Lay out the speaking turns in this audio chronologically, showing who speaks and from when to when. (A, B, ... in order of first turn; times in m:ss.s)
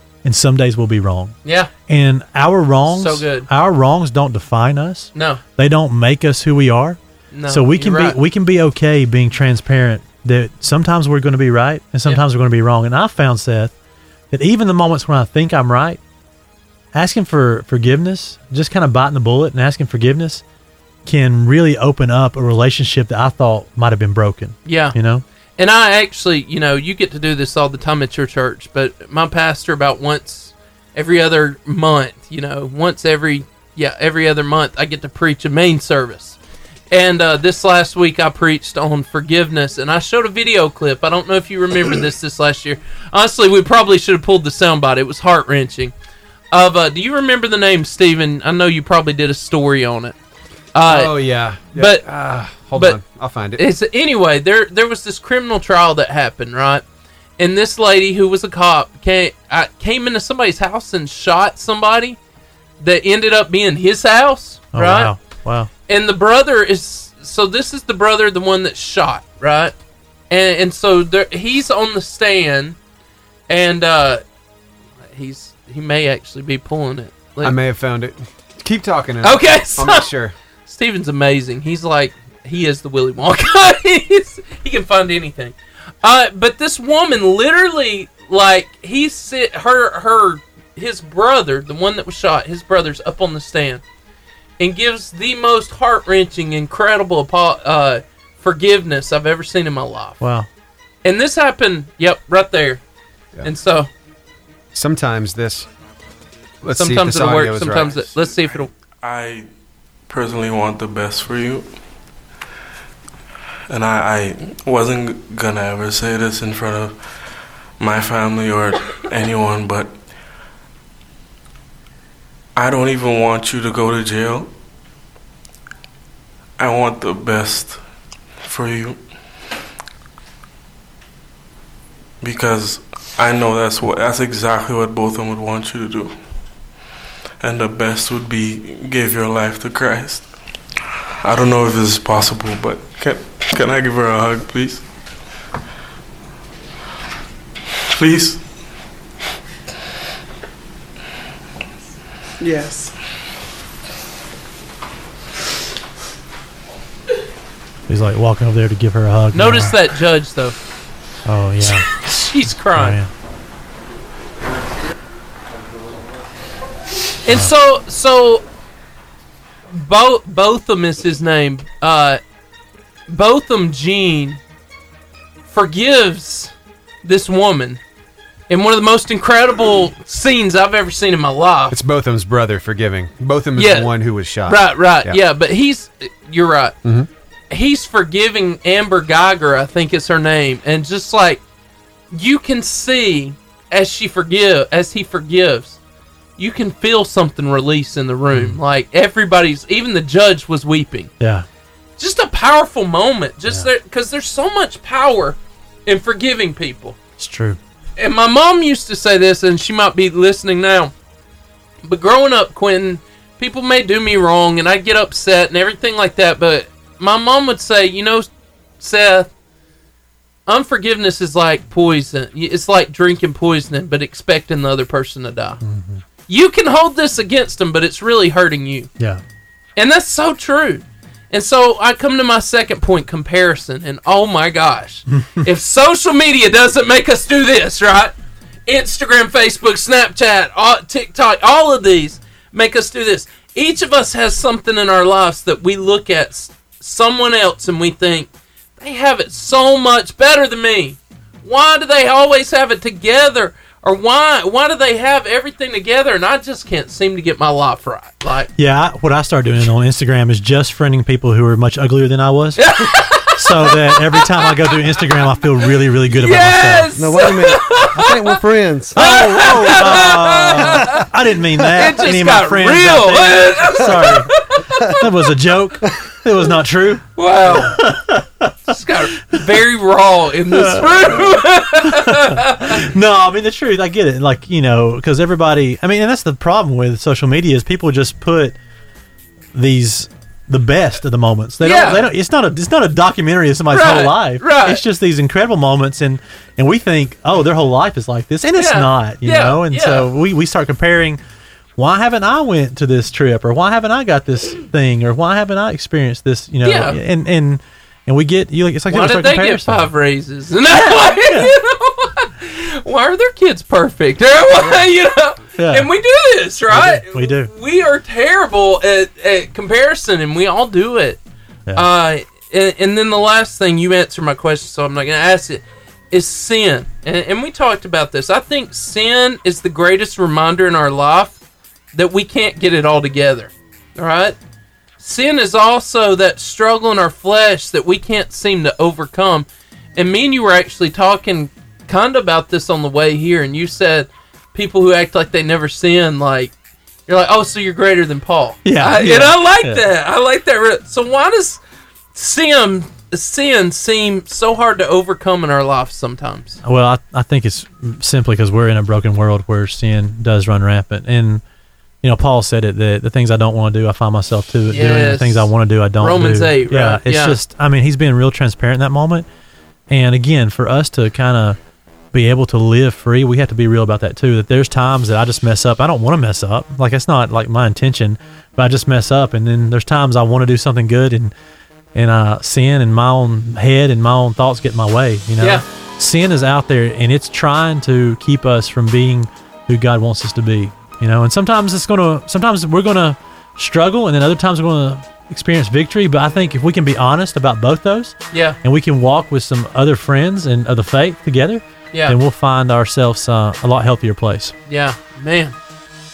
0:00.2-0:01.4 A
0:01.4-0:01.7 B
0:01.9-0:13.7 A
0:02.9-0:03.5 B
0:05.1-0:05.4 B
0:07.3-0:08.2 B
0:14.3-0:16.0 A
0:16.9-0:20.4 A
0:21.0-0:25.2 A
0:24.6-0:25.0 B
0:25.6-0:36.4 B
0:36.9-0:45.9 B
0:46.5-0:50.2 B
0:50.7-0:51.2 B
0:50.8-0:53.6 C
0:51.7-0:52.0 B
0:53.6-0:56.8 B
0:57.4-1:02.2 B
1:02.8-1:05.1 B
1:04.7-1:05.7 A
1:05.9-1:09.7 B
1:10.3-1:12.8 B
1:13.5-1:14.2 B
1:15.1-1:17.6 B
1:17.4-1:20.3 C
1:19.2-1:20.1 B
1:20.7-1:33.8 B
1:34.6-1:40.2 B
1:40.2-1:40.5 A
1:41.0-1:42.8 B
1:43.4-1:43.9 B
1:44.7-1:45.7 C
1:46.6-1:48.2 C
1:46.7-1:48.7 B
1:49.0-1:49.5 D
1:50.1-1:51.7 D
1:53.7-1:57.0 D
1:57.8-1:59.9 D
2:02.6-2:04.5 D
2:06.6-2:07.8 D
2:08.4-2:09.0 D
2:12.2-2:16.1 D
2:17.4-2:20.3 D
2:21.2-2:24.8 D
2:27.9-2:28.4 D
2:37.9-2:39.8 A
2:39.3-2:40.6 B
2:41.2-2:41.9 A
2:42.0-2:43.0 B
2:42.7-2:43.1 A
2:47.2-2:48.4 B
2:49.7-2:52.2 B
2:53.1-2:54.4 B
2:55.5-2:56.5 B
2:57.0-2:57.8 B
2:58.5-3:01.8 B
3:01.7-3:05.2 C
3:03.6-3:03.9 B
3:04.4-3:06.7 B
3:07.5-3:11.4 B
3:12.1-3:15.8 B
3:16.4-3:21.1 B
3:18.3-3:18.6 A
3:21.2-3:21.4 A
3:22.0-3:27.0 B
3:27.2-3:27.6 A
3:28.0-3:30.9 B
3:31.8-3:38.3 B
3:38.8-3:39.3 B
3:40.5-3:45.6 B
3:45.6-3:46.0 A
3:46.3-3:48.9 B
3:49.8-3:58.1 B
3:55.1-3:55.4 A
3:58.7-4:18.5 B
4:18.6-4:22.6 A
4:22.6-4:25.1 B
4:23.3-4:26.9 A
4:26.1-4:28.4 B
4:27.0-4:29.0 E
4:28.9-4:31.0 B
4:28.9-4:34.3 A
4:31.7-4:35.0 B
4:34.9-4:38.7 A
4:37.2-4:37.8 B
4:38.7-4:42.8 B
4:40.5-4:48.6 A
4:49.5-5:01.2 A
4:51.6-4:52.0 B
4:53.7-4:54.8 B
4:58.6-5:00.1 B
5:01.8-5:09.9 A
5:06.6-5:07.0 B
5:08.9-5:21.2 B
5:11.3-5:11.5 A
5:15.6-5:15.9 A
5:16.7-5:17.5 A
5:21.7-5:31.4 B
5:31.9-5:34.4 B
5:35.0-5:46.5 B
5:47.1-5:51.6 B
5:48.6-5:49.8 A
5:52.1-5:56.6 B
5:56.6-6:01.4 A
6:02.0-6:09.2 A
6:04.7-6:07.4 B
6:09.9-6:11.6 A
6:12.1-6:21.3 A
6:21.9-6:44.5 A
6:38.3-6:38.6 B
6:41.9-6:42.2 B
6:44.7-6:45.6 B